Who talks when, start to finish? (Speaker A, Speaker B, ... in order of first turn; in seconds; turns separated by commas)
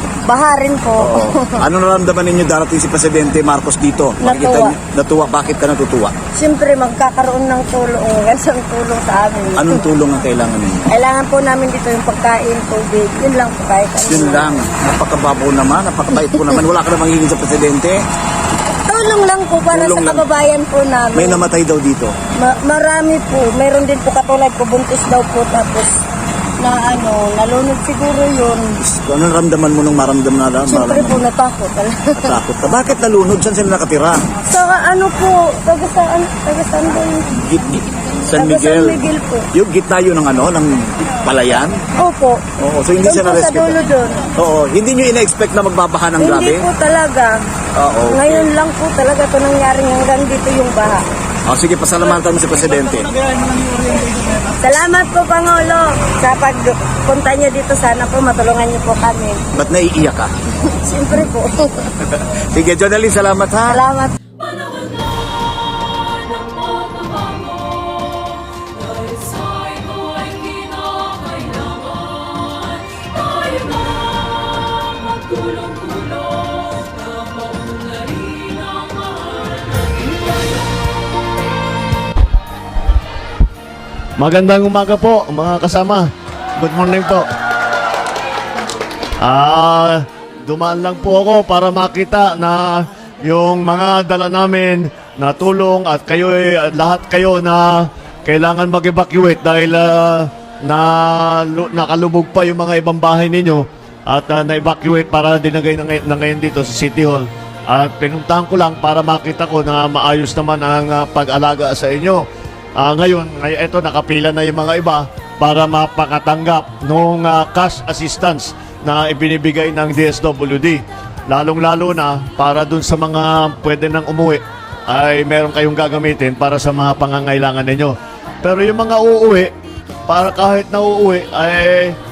Speaker A: 0.3-1.6, Speaker B: 1.0-6.1, Speaker A: 4.2-4.8, Speaker A: 6.3-9.8, Speaker B: 9.6-10.9, Speaker A: 10.9-14.7, Speaker B: 14.0-18.0, Speaker A: 16.2-16.6, Speaker A: 18.9-21.5, Speaker B: 19.7-20.3, Speaker B: 21.1-22.1, Speaker A: 22.4-26.0, Speaker A: 26.6-28.8, Speaker B: 28.8-31.2, Speaker A: 30.6-32.4, Speaker B: 32.2-34.2, Speaker A: 34.5-37.3, Speaker B: 37.4-41.8, Speaker A: 38.3-39.5, Speaker A: 42.0-42.4, Speaker B: 42.6-43.8, Speaker A: 43.0-44.3, Speaker B: 44.4-46.7, Speaker A: 46.2-47.3, Speaker B: 47.8-48.5, Speaker A: 48.1-51.0, Speaker B: 51.5-53.1, Speaker A: 54.6-59.5, Speaker B: 59.5-60.3, Speaker A: 60.7-62.0, Speaker B: 62.5-63.8, Speaker A: 63.7-64.1, Speaker C: 84.2-87.2, Speaker C: 89.2-112.2, Speaker C: 112.8-129.5, Speaker C: 130.1-132.0